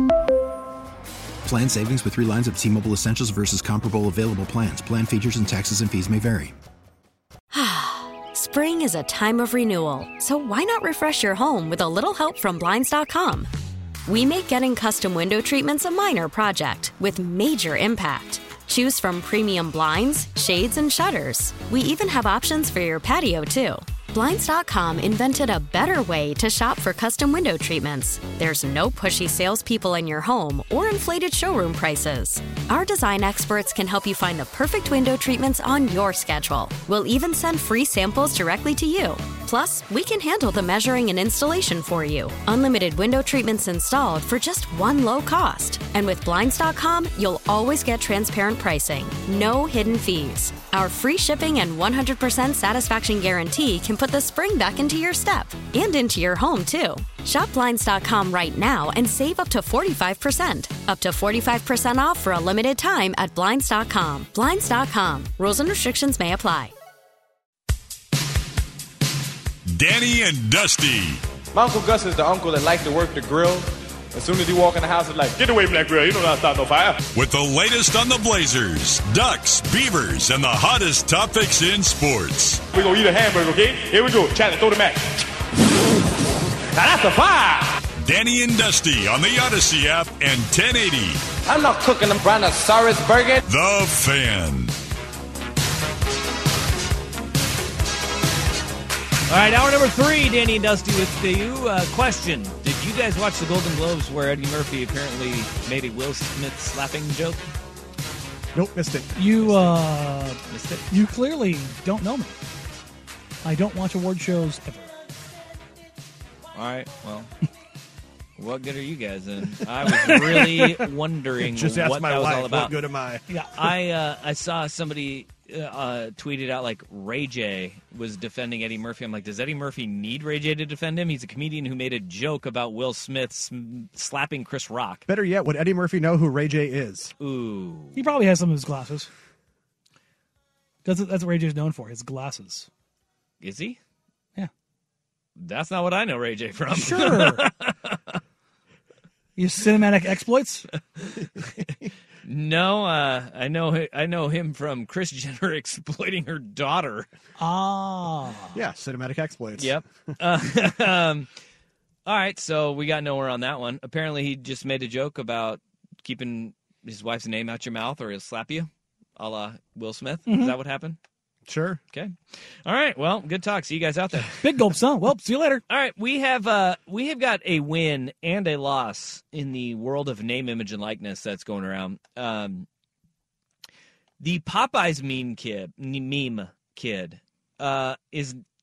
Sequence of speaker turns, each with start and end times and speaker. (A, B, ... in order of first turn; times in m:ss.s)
0:01.4-0:06.6 A
0:07.5-0:13.5 B
0:14.1-1:06.7 B
1:09.7-1:11.2 C
1:11.5-1:17.0 D
1:17.2-1:22.6 C
1:22.7-1:25.2 D
1:26.7-1:27.8 D
1:28.0-1:31.2 C
1:31.4-1:33.4 D
1:33.4-1:34.7 C
1:39.3-1:47.4 E
1:48.5-1:49.2 F
1:49.2-1:52.4 G
1:49.4-1:49.8 E
1:50.5-1:50.8 E
1:53.4-1:54.9 G
1:56.5-1:57.3 E
1:58.4-2:02.8 E
1:59.9-2:00.8 G
2:01.4-2:03.2 F
2:03.3-2:03.6 G
2:03.6-2:15.0 E
2:15.1-2:17.1 F
2:17.2-2:18.1 E
2:18.0-2:19.1 G
2:20.8-2:22.7 G
2:23.4-2:23.8 E
2:25.4-2:28.2 E
2:26.7-2:27.4 G
2:29.4-2:30.7 G
2:31.0-2:31.2 E
2:32.2-2:37.1 E
2:37.4-2:38.6 G
2:38.6-2:39.8 F
2:39.6-2:41.3 E
2:42.1-2:51.0 E
2:50.3-2:50.6 G
2:51.5-2:51.8 F
2:51.9-2:54.7 E
2:54.2-2:55.6 G
2:55.7-3:02.7 E
3:04.2-3:08.4 E